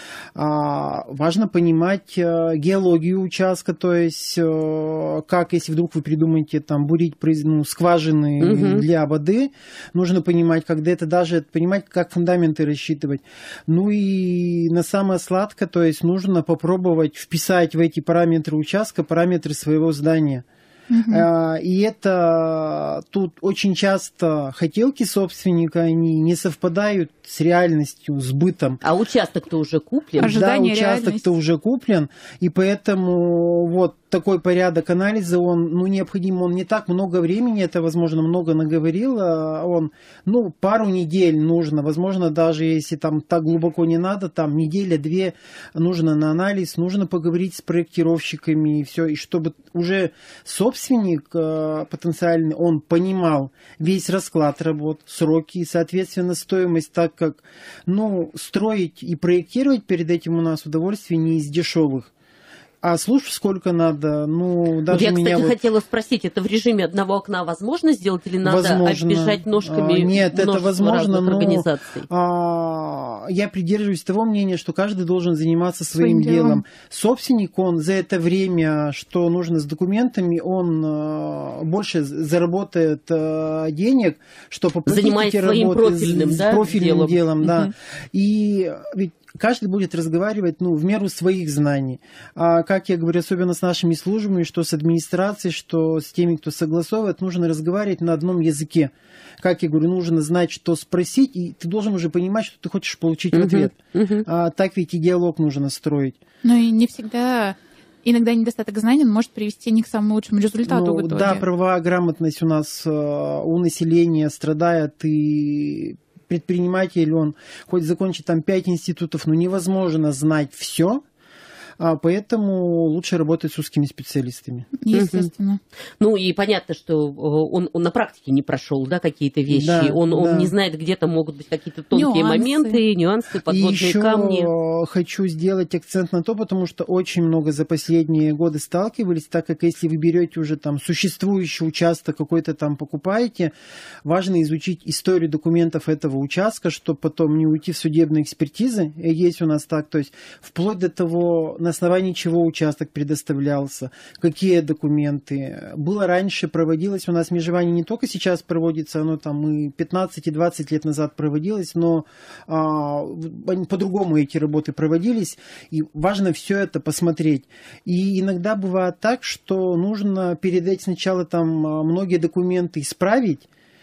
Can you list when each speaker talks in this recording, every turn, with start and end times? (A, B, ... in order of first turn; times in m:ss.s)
0:00.4-0:20.4 A
0:08.4-0:08.8 B
0:20.9-0:21.3 C
0:21.1-0:28.8 A
0:28.8-0:30.3 B
0:30.2-0:31.3 C
0:30.2-1:02.1 A
1:02.8-1:05.6 A
1:04.9-1:12.1 B
1:08.4-1:43.8 A
1:16.0-1:16.6 C
1:24.9-1:27.6 B
1:43.3-1:44.3 B
1:44.3-1:46.2 A
1:46.4-1:51.4 C
1:50.7-2:01.0 A
2:01.8-2:04.7 A
2:04.8-2:05.6 C
2:04.9-2:05.3 B
2:06.0-2:14.5 B
2:09.5-2:10.5 A
2:11.9-2:12.8 C
2:13.5-2:23.5 A
2:24.0-2:53.5 A